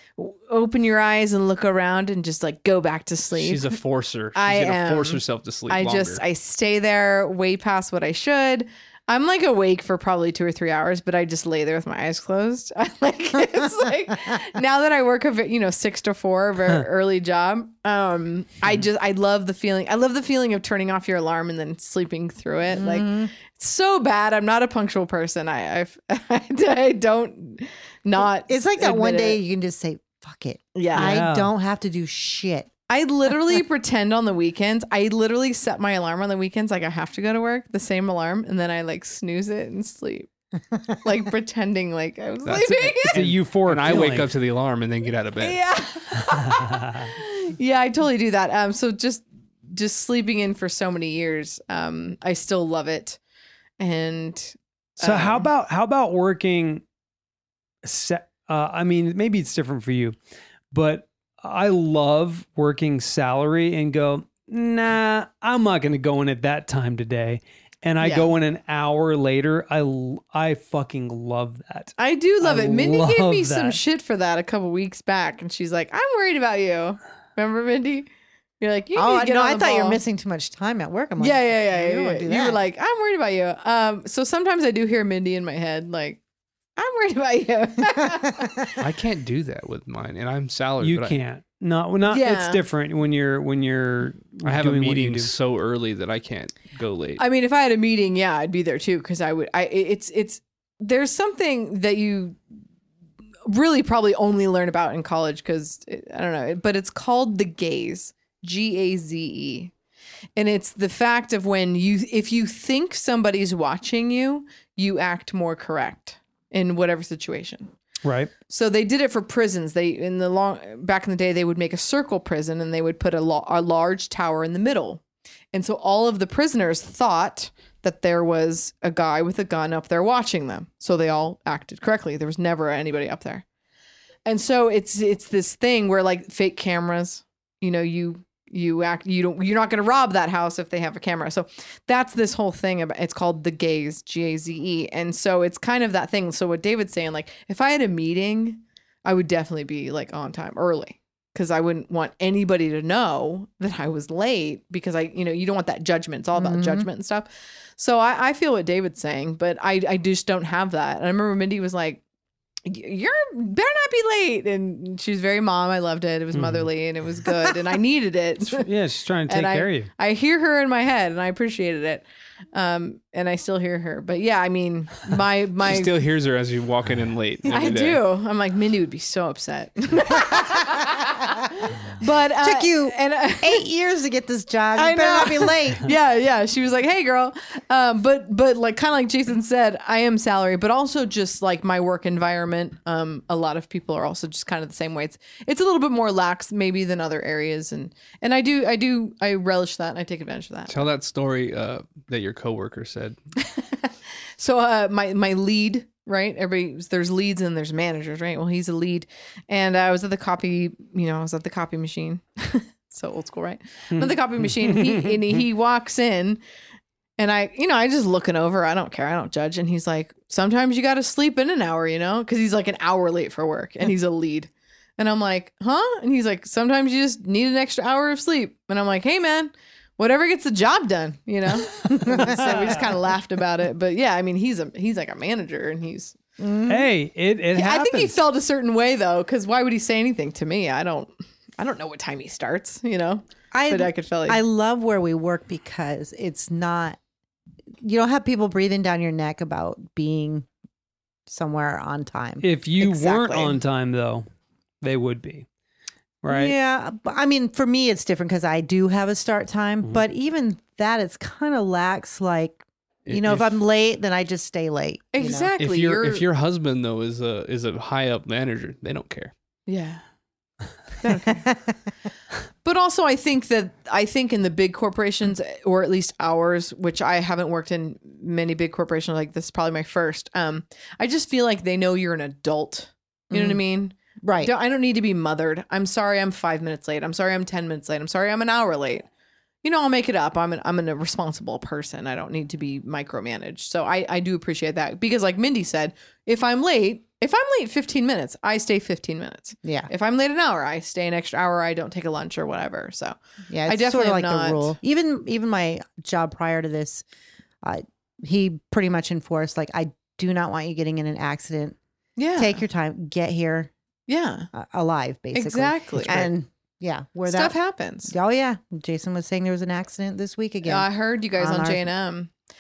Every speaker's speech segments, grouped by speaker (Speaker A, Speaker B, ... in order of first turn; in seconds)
Speaker A: 0.2-3.8, 4.3-29.4, 30.8-31.2, 32.9-40.3, 41.0-43.2, 45.4-53.2, 53.8-55.5, 68.0-68.3, 72.0-78.1, 78.6-80.0, 81.2-86.2, 86.8-88.8, 92.1-92.6, 97.2-102.4, 103.5-109.7, 110.4-117.7, 118.5-125.0, 125.5-133.4, 134.2-162.0, 162.7-168.7, 169.3-175.9, 177.5-183.6, 184.8-200.9, 203.4-216.4, 217.2-236.2, 237.6-244.4, 252.8-253.6, 265.1-266.2, 269.7-270.0, 271.0-271.5, 272.6-289.1, 289.6-304.8, 312.2-312.6, 314.1-314.5, 315.3-316.3, 317.3-318.1, 320.6-322.3
Speaker B: 3.4-6.2, 42.5-45.6, 88.8-91.2, 94.4-97.2, 175.7-178.0, 200.7-203.2, 263.1-263.5, 265.6-269.3
Speaker C: 22.7-23.3, 28.2-32.7, 79.0-82.6, 156.3-156.9, 182.4-185.9, 231.9-232.9, 236.4-236.9, 243.5-247.0, 247.8-250.5, 251.3-252.4, 256.3-265.5, 271.1-271.7, 283.3-283.6, 284.2-284.5, 299.6-299.9, 303.5-307.1, 307.6-311.8, 312.4-313.7, 314.5-317.5, 318.1-321.9
Speaker D: 30.9-31.5, 42.6-44.3, 46.6-47.1, 55.0-56.8, 57.8-60.2, 60.7-73.8, 90.8-95.3, 118.0-118.3, 166.3-166.7, 168.5-169.9, 213.9-215.2, 231.9-232.8, 236.7-238.2, 252.4-254.3, 254.8-255.5, 256.2-256.5